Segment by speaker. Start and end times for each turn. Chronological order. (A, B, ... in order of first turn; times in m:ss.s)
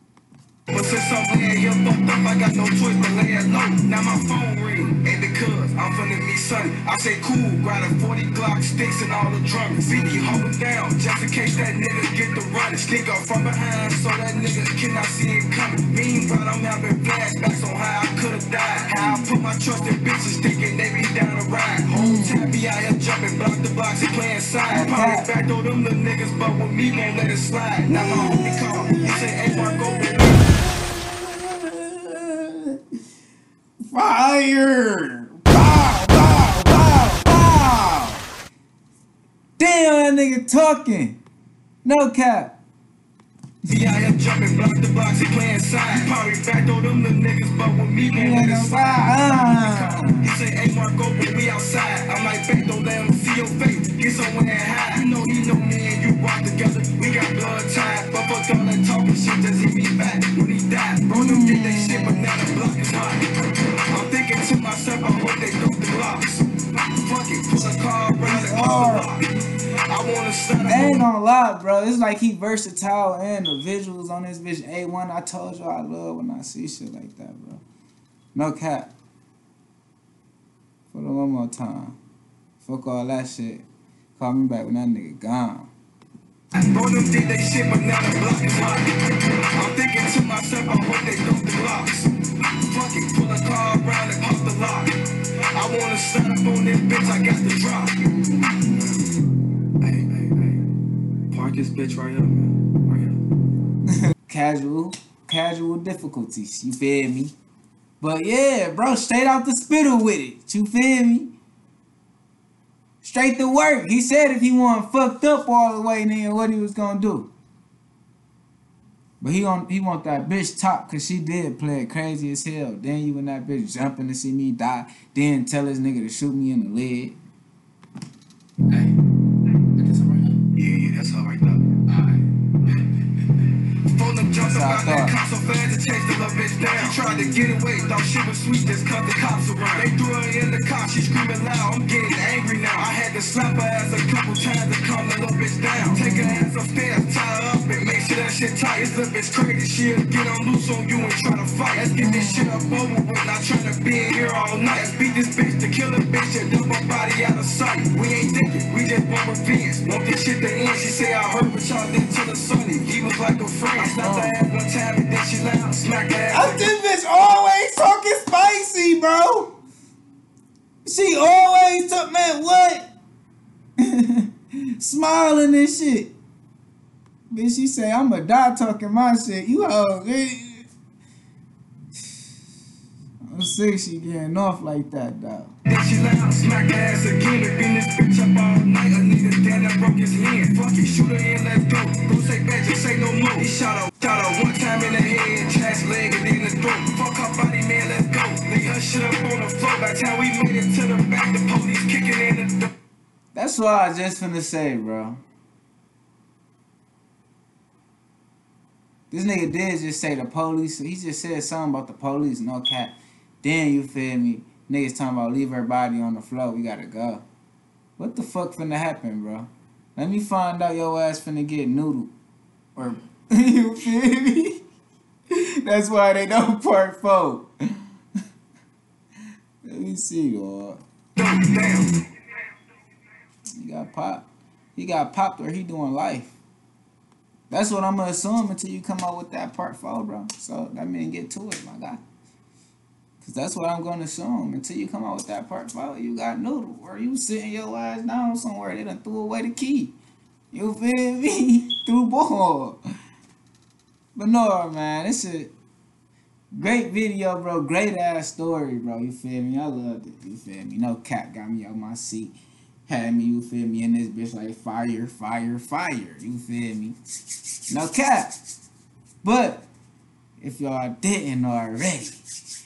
0:00.7-0:30.4 A
0:19.0-0:19.3 B
0:22.0-0:22.6 B
0:24.7-0:25.3 B
0:27.9-0:32.8 B
0:33.9-0:38.3 B
0:39.6-0:41.2 B
0:41.8-0:42.6 B
0:43.7-1:03.3 A
0:48.1-0:50.3 B
1:01.1-1:02.4 B
1:03.9-1:09.3 A
1:08.2-1:09.1 B
1:09.9-1:11.1 A
1:10.7-1:17.6 B
1:18.4-1:18.9 B
1:20.9-1:22.0 B
1:22.6-1:23.6 B
1:24.2-1:25.7 B
1:26.6-1:39.0 A
1:39.8-1:40.6 A
1:41.3-1:43.2 A
1:44.2-1:47.3 B
1:48.0-1:51.4 B
1:53.0-1:57.3 B
1:59.2-2:07.2 B
2:10.5-2:11.8 A
2:13.8-2:46.7 A
2:14.4-2:15.1 B
2:16.9-2:17.4 B
2:25.8-2:26.4 B
2:32.0-2:32.8 B
2:43.8-2:44.4 B
2:46.3-2:49.6 B
2:50.8-2:52.9 B
2:53.8-2:56.2 B
2:57.3-3:00.7 B
3:03.3-3:05.5 B
3:05.7-3:22.7 A
3:23.3-3:25.2 B
3:29.1-3:37.2 B
3:38.0-3:42.1 B
3:42.8-3:44.6 B
3:45.3-3:47.5 B
3:49.6-3:50.8 B
3:51.2-3:52.0 A
3:53.6-3:56.4 B
3:57.5-4:02.0 B
4:03.2-4:10.0 B
4:10.5-4:12.8 B
4:14.2-4:15.5 B
4:16.5-4:22.4 B
4:22.9-4:27.0 B
4:27.7-4:28.3 B
4:29.2-4:29.7 B
4:30.4-4:32.2 B